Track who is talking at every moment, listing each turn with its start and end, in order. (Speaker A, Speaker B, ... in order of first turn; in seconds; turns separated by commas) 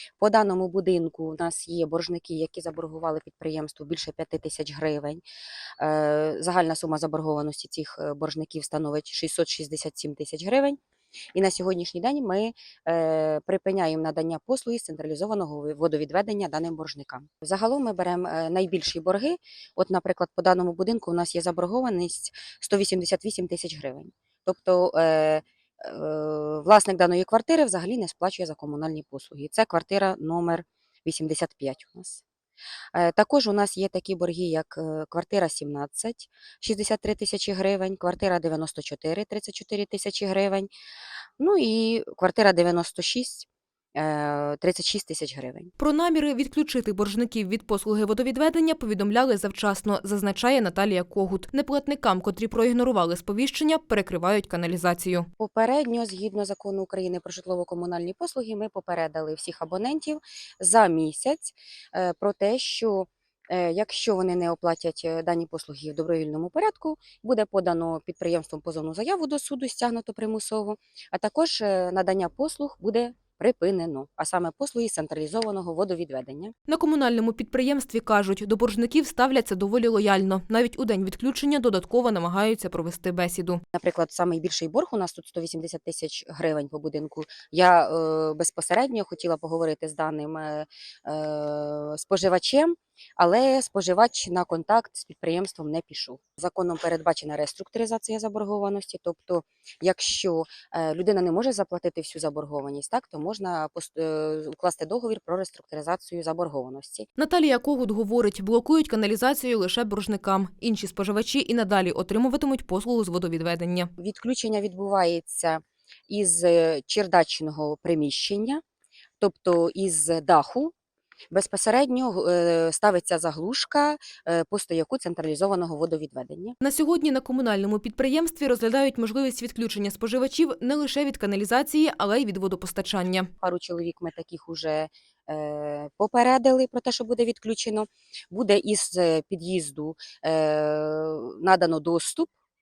Speaker A: 0.2-5.2, Speaker A: 5.8-10.8, Speaker A: 11.3-32.2, Speaker A: 32.9-40.7, Speaker A: 41.4-45.7, Speaker B: 45.8-55.3, Speaker A: 55.4-76.5, Speaker B: 76.7-83.6, Speaker A: 83.7-107.1, Speaker B: 107.2-113.9, Speaker A: 114.0-118.6, Speaker A: 119.2-120.7, Speaker A: 121.3-126.6, Speaker B: 126.6-133.3, Speaker A: 133.4-142.3